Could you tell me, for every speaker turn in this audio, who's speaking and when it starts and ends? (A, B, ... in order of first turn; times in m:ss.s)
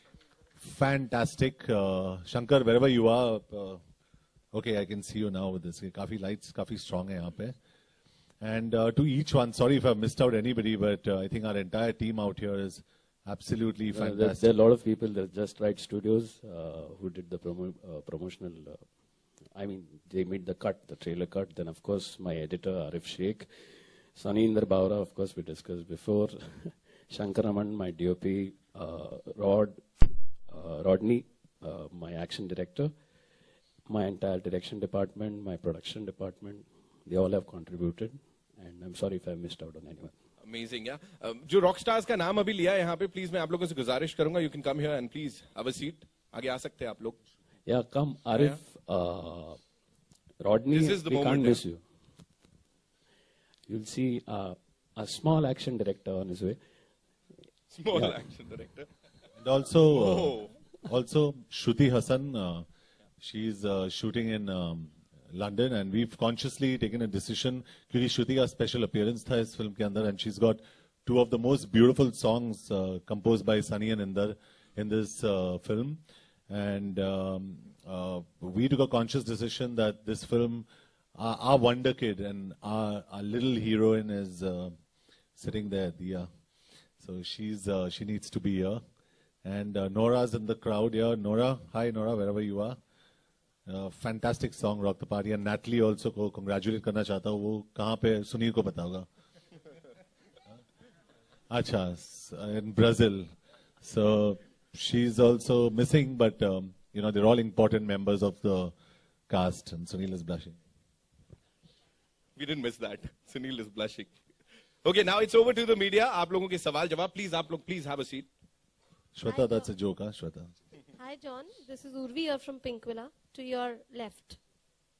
0:00.6-0:03.8 A
0:04.5-0:07.5 A
0:08.4-0:14.5 A
0:13.9-0:18.8 B
0:19.5-0:23.5 B
0:24.1-0:29.8 B
0:30.5-0:32.9 B
0:33.9-0:40.1 B
0:40.4-0:47.2 C
0:47.6-0:49.6 B
0:48.3-0:48.6 C
0:50.4-0:51.8 B
0:50.7-0:51.6 C
0:53.7-0:56.6 B
0:57.7-0:58.9 C
0:59.4-1:02.6 A
0:59.9-1:00.5 C
1:03.2-1:16.0 A
1:16.5-1:24.7 A
1:25.4-1:26.3 A
1:27.0-1:28.8 A
1:29.4-1:32.8 A
1:33.7-1:39.0 A
1:41.5-1:43.3 A
1:43.8-1:48.7 A
1:49.3-1:50.6 A
1:52.4-1:54.1 C
1:54.8-1:58.3 C
1:59.1-2:00.5 A
1:59.2-1:59.7 D
2:01.0-2:04.4 D